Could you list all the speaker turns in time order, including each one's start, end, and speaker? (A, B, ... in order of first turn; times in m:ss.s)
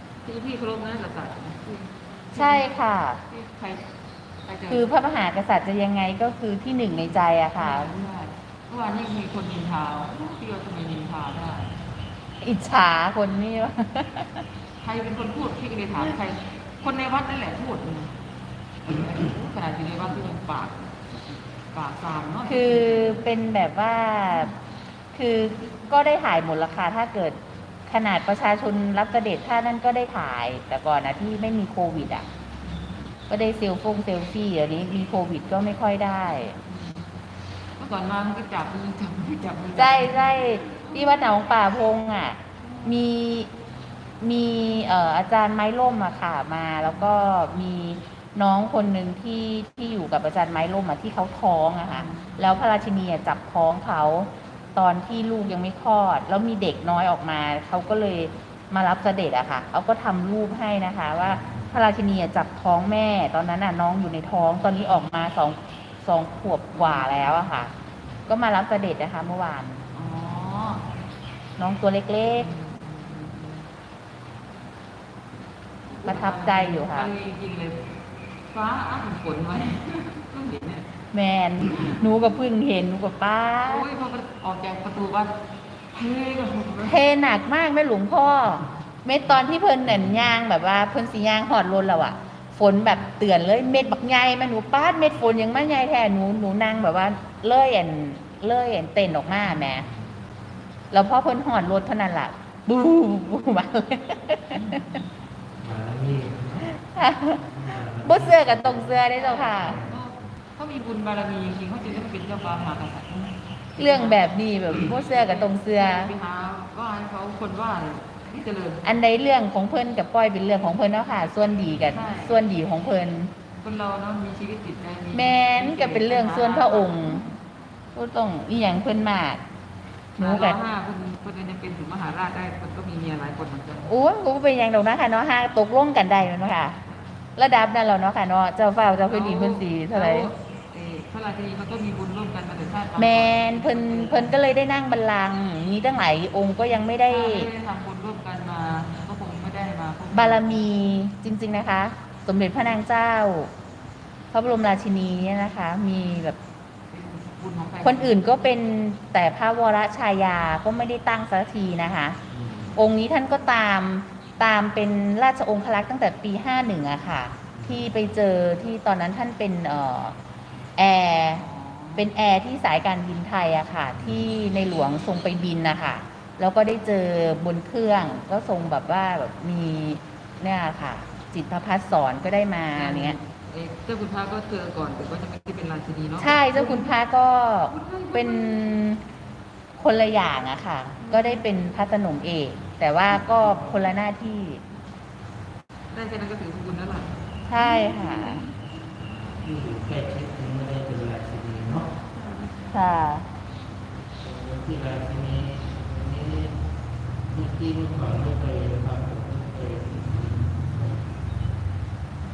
0:00.2-0:02.7 A
0:02.3-0:03.2 B
0:03.3-0:03.9 A
0:04.5-0:04.9 A
0:04.7-0:07.9 B
0:07.6-0:11.8 A
0:12.4-0:14.4 B
0:14.8-0:18.2 A
0:18.8-0:21.0 A
0:21.7-0:23.2 A
0:22.5-0:24.5 B
0:25.1-0:32.3 B
0:33.3-0:36.6 B
0:36.7-0:37.1 A
0:37.8-0:41.3 A
0:39.8-0:43.5 B
0:42.6-0:42.9 A
0:44.2-1:07.7 B
0:51.9-0:52.4 A
1:01.3-1:01.7 C
1:06.7-1:07.4 A
1:08.3-1:09.8 B
1:09.9-1:10.9 A
1:11.6-1:12.5 B
1:12.3-1:13.7 A
1:15.8-1:17.9 A
1:16.1-1:17.1 B
1:18.5-1:20.9 A
1:21.1-1:23.8 B
1:23.6-1:25.4 A
1:25.9-1:27.0 A
1:26.9-1:39.9 B
1:39.8-1:40.1 C
1:40.9-1:45.0 B
1:45.6-1:46.8 C
1:46.8-1:47.4 B
1:47.3-1:50.3 C
1:48.0-1:49.8 B
1:49.1-1:58.9 A
1:53.8-1:56.1 B
1:58.8-2:03.3 B
2:01.9-2:02.4 A
2:03.6-2:07.4 A
2:05.1-2:07.2 B
2:08.0-2:09.4 B
2:10.2-2:10.6 B
2:10.2-2:13.9 A
2:13.8-2:16.8 B
2:17.4-2:20.3 B
2:19.1-2:24.3 A
2:23.0-2:27.5 B
2:27.1-2:30.6 A
2:30.1-2:33.5 B
2:34.3-2:36.4 B
2:36.9-2:38.2 A
2:37.8-2:42.2 B
2:42.3-2:42.8 C
2:42.8-2:50.2 B
2:47.5-2:47.9 C
2:50.8-2:51.4 B
2:51.3-2:52.1 A
2:52.0-3:03.2 B
2:54.0-2:54.3 C
3:02.7-3:06.9 A
3:06.2-3:09.0 B
3:07.7-3:08.8 A
3:09.8-3:14.6 B
3:11.0-3:11.5 A
3:13.2-3:13.8 C
3:15.9-3:17.1 A
3:17.5-3:18.4 B
3:17.7-3:18.5 A
3:19.0-3:21.9 C
3:22.1-3:22.6 A
3:22.7-3:23.3 B
3:24.2-3:26.6 C
3:27.3-3:31.4 C